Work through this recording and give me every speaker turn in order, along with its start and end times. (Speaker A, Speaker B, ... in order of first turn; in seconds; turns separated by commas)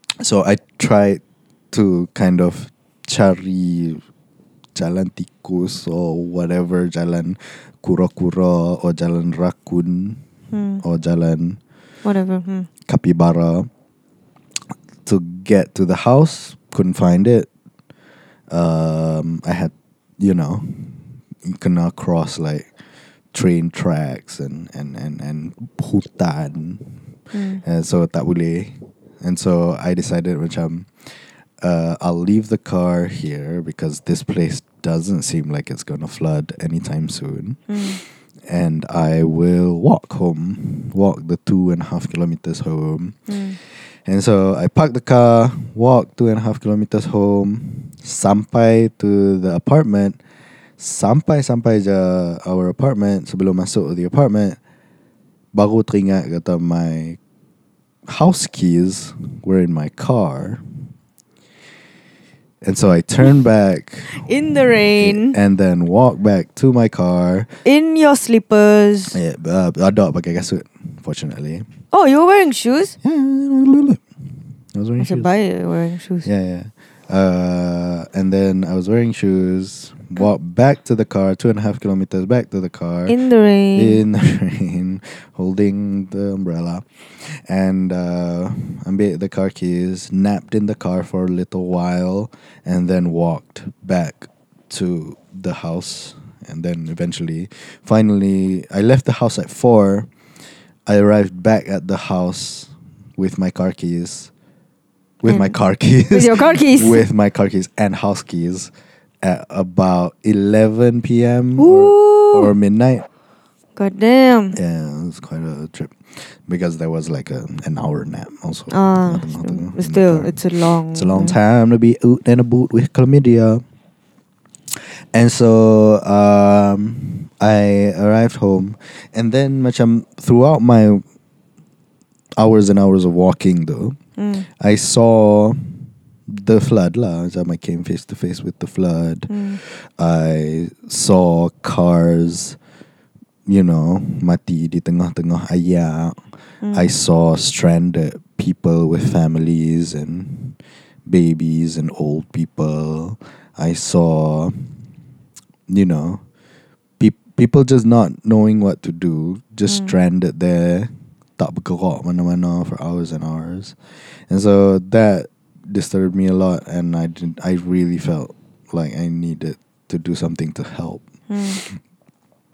Speaker A: 0.2-4.0, Speaker A: 4.8-10.2, Speaker B: 10.5-10.8, Speaker A: 10.8-11.6, Speaker B: 12.0-12.7, Speaker A: 12.9-13.7, Speaker A: 15.1-17.5, Speaker A: 18.5-22.7, Speaker A: 23.3-27.0, Speaker B: 27.3-27.6, Speaker A: 27.6-37.7, Speaker B: 37.7-38.0, Speaker A: 38.5-50.2, Speaker B: 43.3-43.6, Speaker A: 50.8-54.6, Speaker A: 55.5-57.2, Speaker A: 58.1-60.6, Speaker A: 62.6-64.3, Speaker B: 64.1-65.4, Speaker A: 65.0-67.5, Speaker B: 67.7-69.2, Speaker A: 69.1-71.7, Speaker B: 71.9-73.0, Speaker A: 73.0-74.0, Speaker A: 74.7-75.3, Speaker B: 75.0-76.3, Speaker A: 76.2-83.2, Speaker B: 83.1-84.0, Speaker A: 83.8-100.1, Speaker A: 100.9-104.3, Speaker A: 105.2-108.7, Speaker B: 105.3-105.5, Speaker B: 106.1-107.0, Speaker A: 109.2-113.1, Speaker B: 111.6-112.5, Speaker B: 113.8-114.6, Speaker A: 114.5-120.4, Speaker B: 118.7-121.4, Speaker A: 120.9-123.6, Speaker A: 124.7-131.0, Speaker A: 132.4-134.0, Speaker B: 134.2-134.5, Speaker A: 134.6-135.7, Speaker A: 136.3-142.6, Speaker B: 139.3-139.6, Speaker A: 143.5-154.7, Speaker B: 146.6-146.9, Speaker A: 155.7-156.2, Speaker A: 157.0-163.8, Speaker B: 159.7-159.9, Speaker A: 164.3-171.0, Speaker B: 171.3-171.6